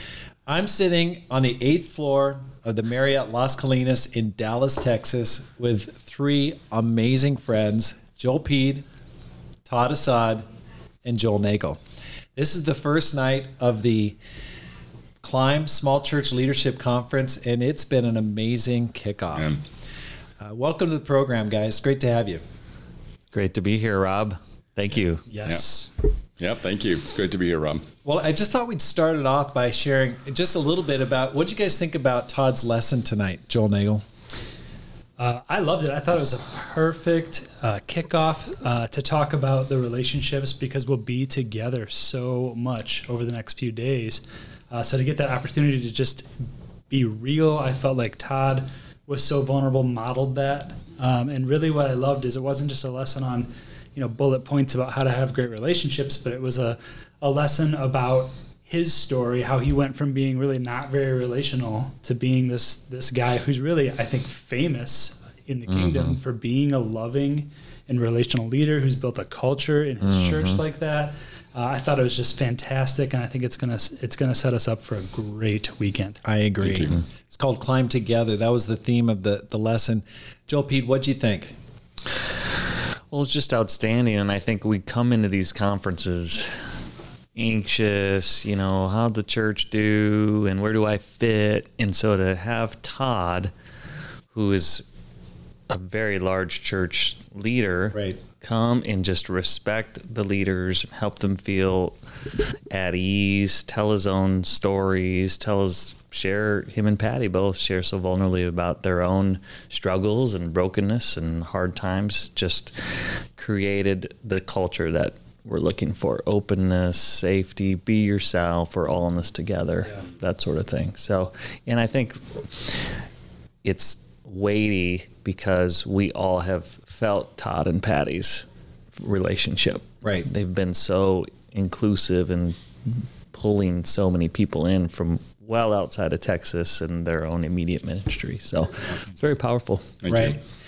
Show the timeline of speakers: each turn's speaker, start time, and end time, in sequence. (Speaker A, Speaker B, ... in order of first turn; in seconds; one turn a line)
Speaker A: 0.5-8.8
Speaker A: 9.7-10.5
Speaker A: 11.1-11.8
Speaker A: 12.4-14.2
Speaker A: 15.2-19.5
Speaker B: 19.3-19.6
Speaker A: 20.4-22.4
Speaker C: 23.3-25.3
Speaker D: 25.3-25.9
Speaker B: 26.4-27.9
Speaker A: 28.1-34.0
Speaker D: 35.2-46.3
Speaker D: 46.9-76.2
Speaker C: 65.7-66.2
Speaker C: 70.0-70.6
Speaker A: 76.2-81.5
Speaker B: 76.6-77.0
Speaker C: 83.1-86.5
Speaker C: 87.4-93.5
Speaker C: 94.3-94.8
Speaker C: 95.7-102.0
Speaker A: 97.9-98.2
Speaker C: 102.7-122.7
Speaker C: 123.6-140.0
Speaker B: 140.0-140.4
Speaker A: 140.1-140.4